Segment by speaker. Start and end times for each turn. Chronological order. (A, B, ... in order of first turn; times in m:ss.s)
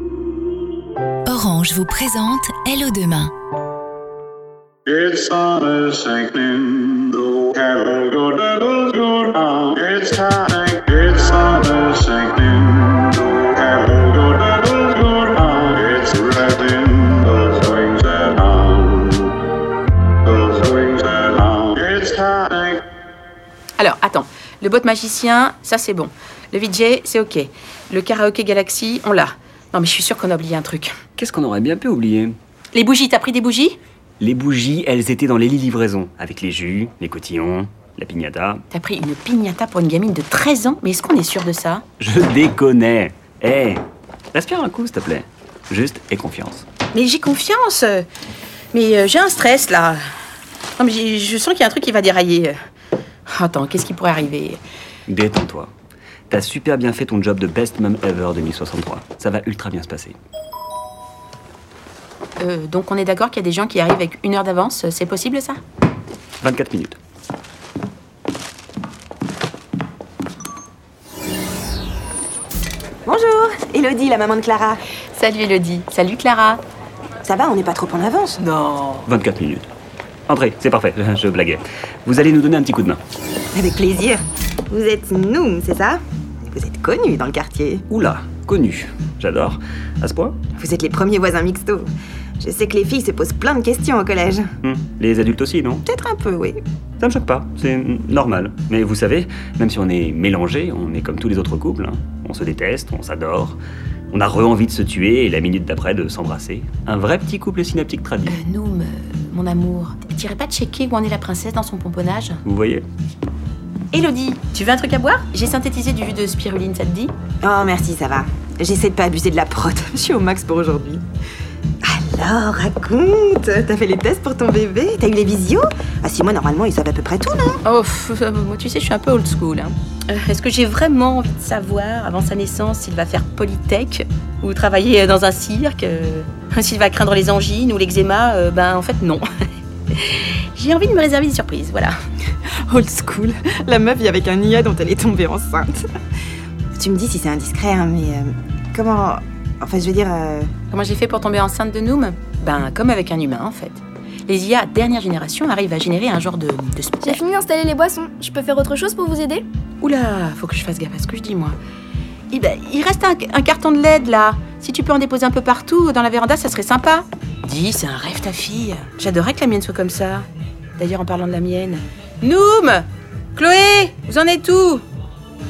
0:01.3-0:03.3 A
0:04.9-0:19.4 B
0:20.2-0:22.8 B
0:23.8-0:30.9 C
0:31.2-0:32.4 D
0:32.7-0:33.8 C
0:34.2-0:38.6 D
0:38.7-0:41.8 C
0:42.0-0:43.8 D
0:44.3-0:46.7 D
0:46.9-0:48.1 C
0:48.7-0:50.0 C
0:50.8-0:52.6 C
0:53.3-0:54.6 C
0:55.1-0:55.7 D
0:56.3-1:00.2 D
1:02.4-1:05.6 C
1:06.4-1:07.0 D
1:13.1-1:14.8 E
1:15.2-1:16.6 C
1:17.2-1:18.4 E
1:18.4-1:19.1 C
1:19.1-1:19.7 D
1:20.3-1:23.0 D
1:23.5-1:27.8 E
1:27.9-1:30.4 D
1:30.6-1:31.9 E
1:32.4-1:34.5 E
1:34.6-1:35.8 D
1:35.9-1:36.6 E
1:37.0-1:43.6 D
1:44.1-1:48.4 D
1:48.3-1:52.4 C
1:52.4-1:52.8 D
1:53.9-1:57.1 C
1:57.4-2:01.0 E
2:01.8-2:07.6 E
2:07.6-2:19.2 C
2:19.9-2:21.9 C
2:22.7-2:25.8 E
2:26.8-2:30.5 E
2:30.7-2:37.2 C
2:37.0-2:39.4 F
2:39.8-2:41.6 C
2:42.3-2:50.3 C
2:50.8-2:54.8 C